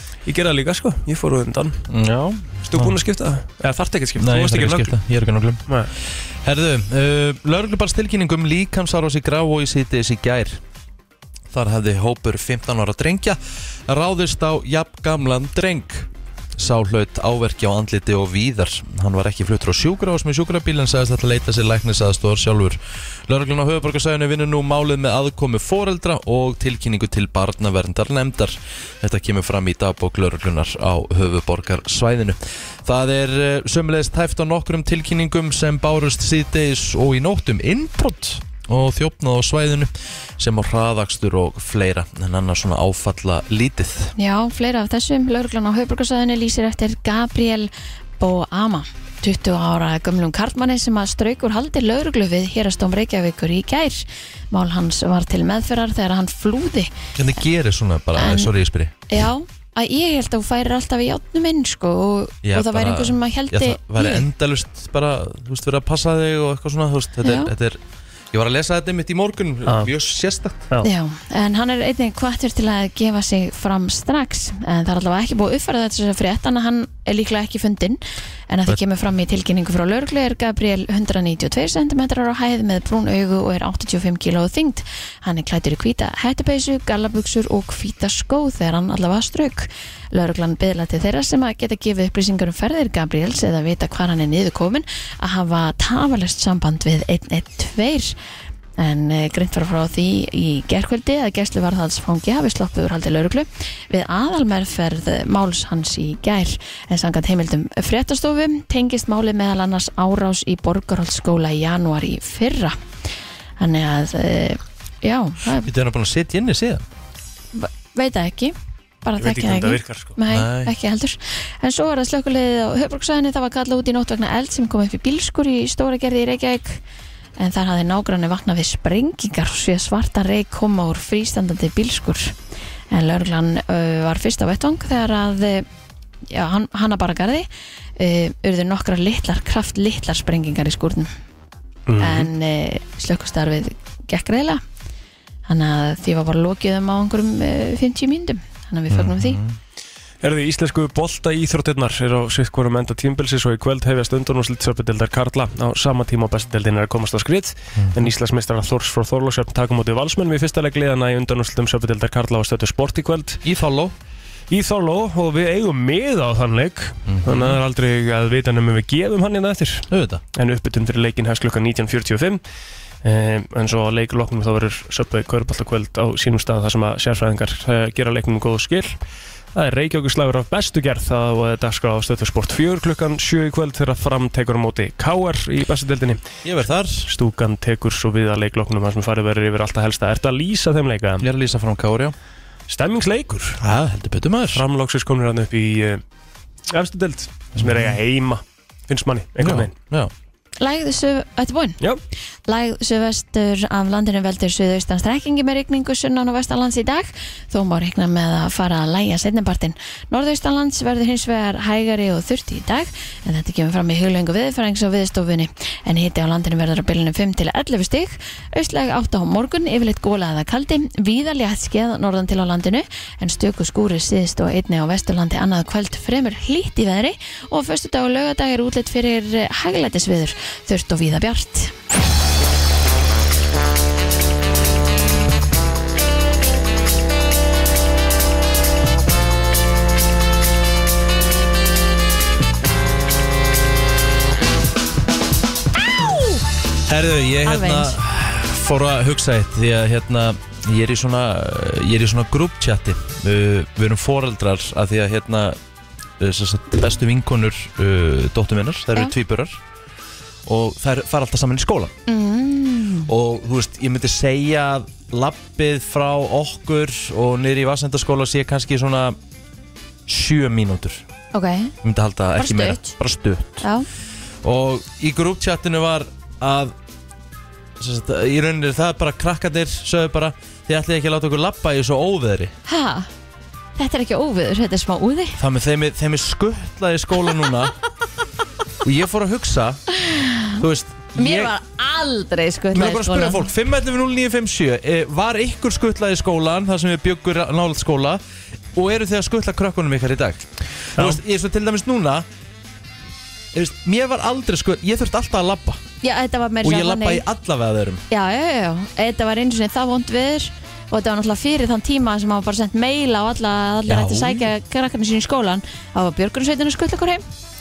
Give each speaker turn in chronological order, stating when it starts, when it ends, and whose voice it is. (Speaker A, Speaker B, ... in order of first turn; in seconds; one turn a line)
Speaker A: 0.3-1.9
Speaker B: 1.9-3.0
Speaker A: 2.6-4.9
Speaker B: 4.2-5.6
Speaker B: 6.4-10.6
Speaker B: 11.5-44.1
Speaker C: 44.2-56.9
Speaker B: 57.2-59.0
Speaker C: 58.2-58.5
Speaker C: 59.1-64.3
Speaker B: 62.4-67.8
Speaker C: 67.2-67.5
Speaker B: 68.3-70.7
Speaker C: 70.8-98.2
Speaker C: 98.8-112.8
Speaker C: 113.6-115.7
Speaker B: 115.6-116.8
Speaker C: 117.5-126.8
Speaker A: 119.2-120.2
Speaker B: 120.3-120.7
Speaker C: 127.4-132.3
Speaker C: 132.9-135.7
Speaker C: 136.3-137.5
Speaker C: 138.0-141.1
Speaker A: 141.9-142.3
Speaker C: 142.0-144.6
Speaker C: 145.5-149.4
Speaker B: 148.9-149.6
Speaker A: 150.2-163.4
Speaker B: 157.8-158.1
Speaker B: 163.4-163.9
Speaker A: 164.5-172.4
Speaker B: 167.1-167.6
Speaker B: 169.9-170.2
Speaker A: 173.0-179.0
Speaker A: 179.6-186.2
Speaker B: 186.4-187.1
Speaker A: 187.1-191.3
Speaker B: 191.2-192.2
Speaker A: 192.7-193.6
Speaker B: 193.6-194.7
Speaker A: 194.5-196.0
Speaker A: 196.7-199.7
Speaker B: 197.6-198.0
Speaker B: 199.4-200.1
Speaker C: 200.6-201.8
Speaker C: 202.5-231.7
Speaker C: 245.9-246.4
Speaker B: 246.9-255.6
Speaker C: 247.4-248.0
Speaker B: 256.2-259.6
Speaker B: 260.5-261.9
Speaker C: 262.1-263.1
Speaker B: 263.1-269.2
Speaker B: 270.1-271.0
Speaker C: 271.3-271.7
Speaker B: 271.8-273.6
Speaker C: 272.4-272.9
Speaker C: 273.6-273.9
Speaker B: 274.4-276.7
Speaker B: 277.8-282.6
Speaker C: 282.7-283.1
Speaker C: 283.8-285.4
Speaker B: 285.4-287.8
Speaker B: 288.8-289.8
Speaker C: 290.1-290.4
Speaker B: 290.6-291.5
Speaker C: 291.1-293.5
Speaker B: 292.7-298.2
Speaker B: 298.8-302.3
Speaker B: 303.5-305.8
Speaker C: 306.0-307.2
Speaker B: 306.6-308.0
Speaker C: 308.1-317.2
Speaker B: 313.9-314.5